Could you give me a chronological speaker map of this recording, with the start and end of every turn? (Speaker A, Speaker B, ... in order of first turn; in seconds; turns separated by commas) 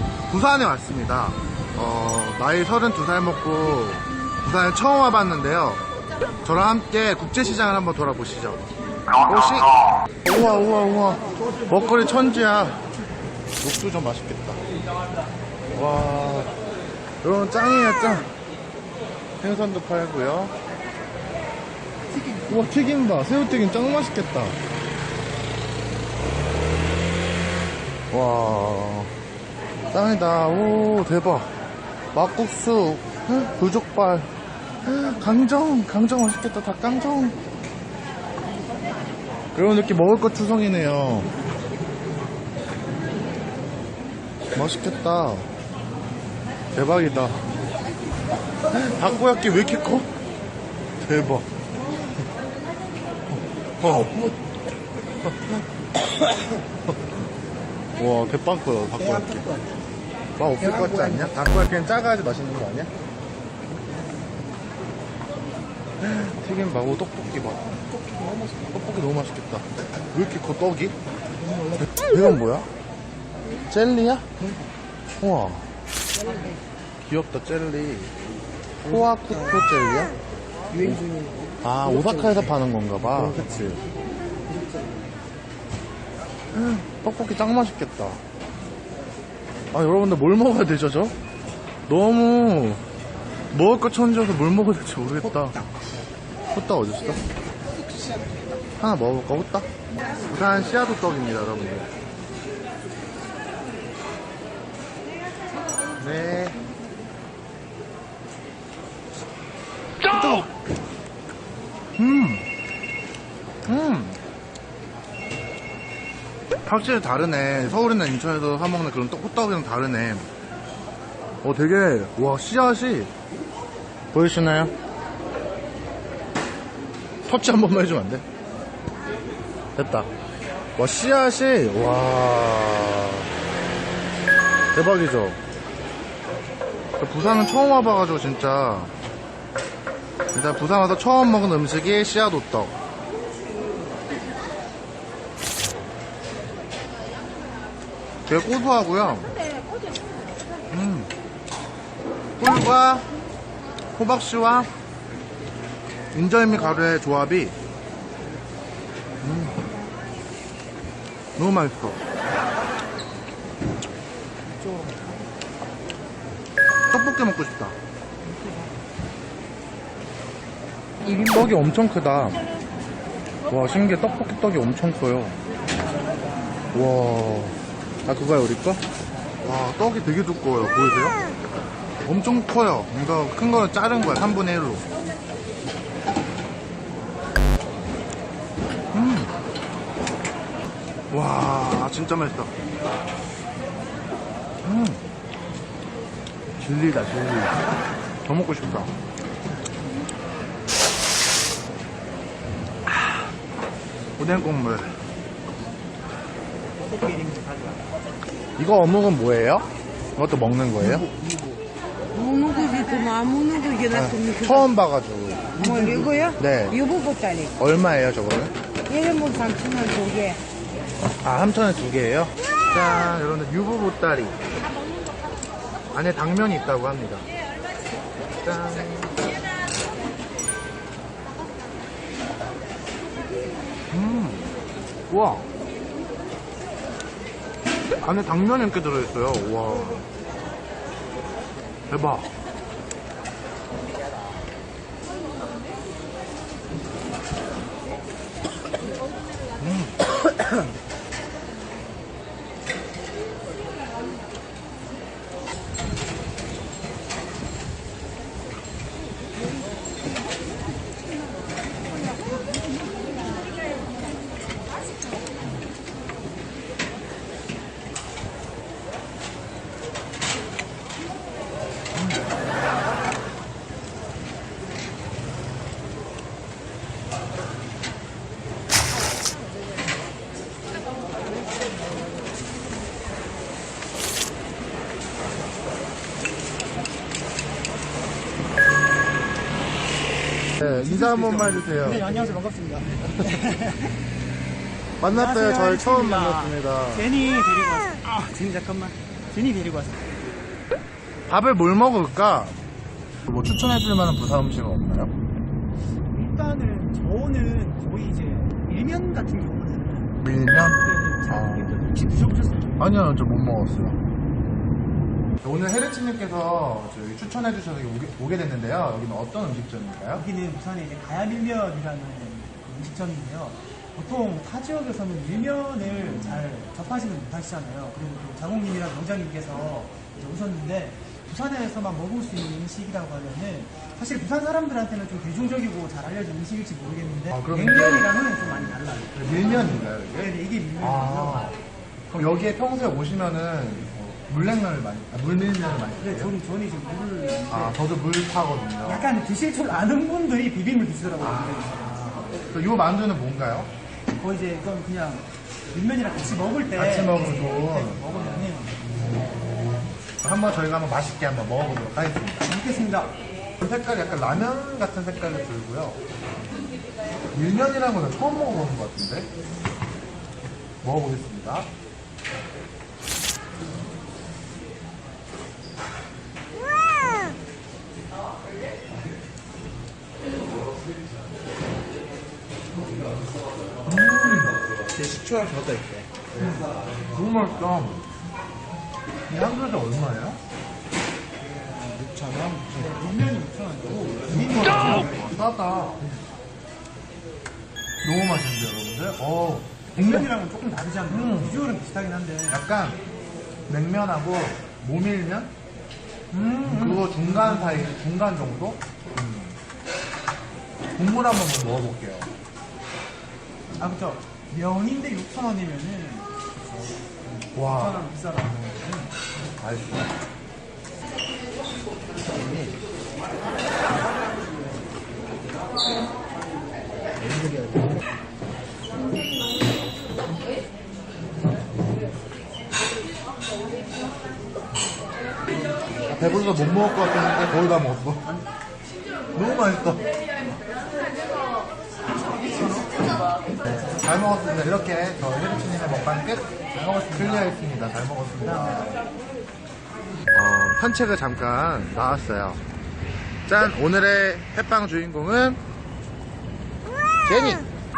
Speaker A: 0.3-5.9, Speaker A: 6.4-8.6, Speaker A: 9.2-12.8, Speaker A: 13.6-14.6, Speaker A: 15.7-16.5, Speaker A: 17.2-18.3, Speaker A: 19.4-20.5, Speaker A: 22.2-24.6, Speaker A: 28.1-29.1, Speaker A: 29.9-31.5, Speaker A: 32.1-34.3, Speaker A: 34.8-37.4, Speaker A: 39.5-41.3, Speaker A: 44.5-45.5, Speaker A: 46.8-47.4, Speaker A: 48.7-50.1, Speaker A: 51.0-51.5, Speaker A: 53.3-54.3, Speaker A: 55.2-55.6, Speaker A: 58.0-59.6, Speaker A: 60.4-62.9, Speaker A: 66.0-67.9, Speaker A: 68.4-71.0, Speaker A: 71.9-72.7, Speaker A: 73.7-74.3, Speaker A: 75.2-75.7, Speaker A: 77.0-78.1, Speaker A: 78.8-80.2, Speaker A: 80.8-83.8, Speaker A: 86.5-88.2, Speaker A: 89.7-91.2, Speaker A: 91.9-92.8, Speaker A: 93.5-95.7, Speaker A: 96.5-97.2, Speaker A: 98.8-101.9, Speaker A: 106.0-106.6, Speaker A: 110.0-110.5, Speaker A: 112.0-112.5, Speaker A: 113.7-114.2, Speaker A: 116.7-120.3, Speaker A: 121.4-123.1, Speaker A: 124.1-124.7, Speaker A: 127.3-128.2, Speaker A: 129.8-130.1, Speaker A: 130.8-133.3, Speaker A: 134.7-135.4, Speaker A: 137.0-138.9, Speaker A: 140.3-142.8, Speaker A: 148.3-149.3, Speaker A: 150.7-151.1, Speaker A: 152.4-153.1, Speaker A: 153.9-154.7, Speaker A: 156.1-157.6, Speaker A: 159.2-159.6, Speaker A: 161.4-162.0, Speaker A: 166.9-167.8, Speaker A: 171.0-172.4, Speaker A: 173.5-175.4, Speaker A: 176.7-178.8, Speaker A: 179.4-181.2, Speaker A: 182.1-184.8, Speaker A: 188.9-189.3, Speaker A: 191.1-192.5, Speaker A: 194.6-195.0, Speaker A: 196.6-197.6, Speaker A: 198.3-198.9, Speaker A: 202.9-203.3, Speaker A: 204.2-204.9, Speaker B: 206.8-207.8, Speaker A: 208.6-211.1, Speaker C: 212.2-214.6, Speaker A: 213.9-215.6, Speaker B: 215.6-216.1, Speaker C: 215.7-217.5, Speaker A: 216.4-216.9, Speaker A: 217.6-218.5, Speaker C: 218.9-220.4, Speaker A: 221.2-224.4, Speaker A: 225.9-227.3, Speaker A: 228.4-229.3, Speaker A: 233.9-234.5, Speaker A: 235.1-235.4, Speaker A: 238.0-240.1, Speaker A: 241.9-242.3, Speaker A: 249.6-250.0, Speaker A: 290.6-292.1, Speaker B: 290.6-294.0, Speaker A: 295.0-297.1, Speaker B: 295.1-300.1, Speaker A: 301.3-302.6, Speaker A: 303.3-305.1, Speaker B: 306.1-312.9, Speaker A: 310.2-311.8, Speaker A: 312.8-314.0, Speaker A: 315.4-320.2, Speaker B: 320.1-341.6, Speaker A: 325.9-326.4, Speaker A: 337.3-341.6, Speaker A: 342.1-346.3, Speaker B: 346.0-347.8, Speaker A: 347.5-349.1, Speaker B: 348.8-352.0, Speaker A: 351.2-353.7, Speaker B: 354.2-358.8, Speaker A: 356.8-358.5, Speaker A: 360.2-362.5, Speaker B: 362.4-363.1, Speaker A: 363.6-366.0, Speaker A: 367.3-369.3, Speaker A: 370.8-371.7, Speaker A: 383.9-384.6, Speaker A: 386.4-388.1, Speaker A: 389.3-390.4, Speaker B: 391.4-392.1, Speaker B: 392.7-395.3, Speaker A: 394.3-396.0, Speaker A: 398.0-400.3, Speaker B: 399.9-402.6, Speaker A: 401.1-401.6, Speaker A: 402.5-403.0, Speaker A: 403.7-405.5, Speaker B: 406.3-407.9, Speaker A: 406.6-409.6, Speaker A: 411.0-412.3, Speaker B: 413.8-419.1, Speaker A: 417.6-418.0, Speaker A: 419.6-420.1, Speaker A: 422.3-422.8, Speaker A: 436.1-438.3, Speaker A: 439.3-440.1, Speaker B: 442.5-442.9, Speaker A: 443.7-446.5, Speaker B: 446.7-447.6, Speaker A: 447.1-449.0, Speaker B: 448.5-449.0, Speaker A: 450.3-452.6, Speaker A: 453.5-455.6, Speaker A: 457.2-457.7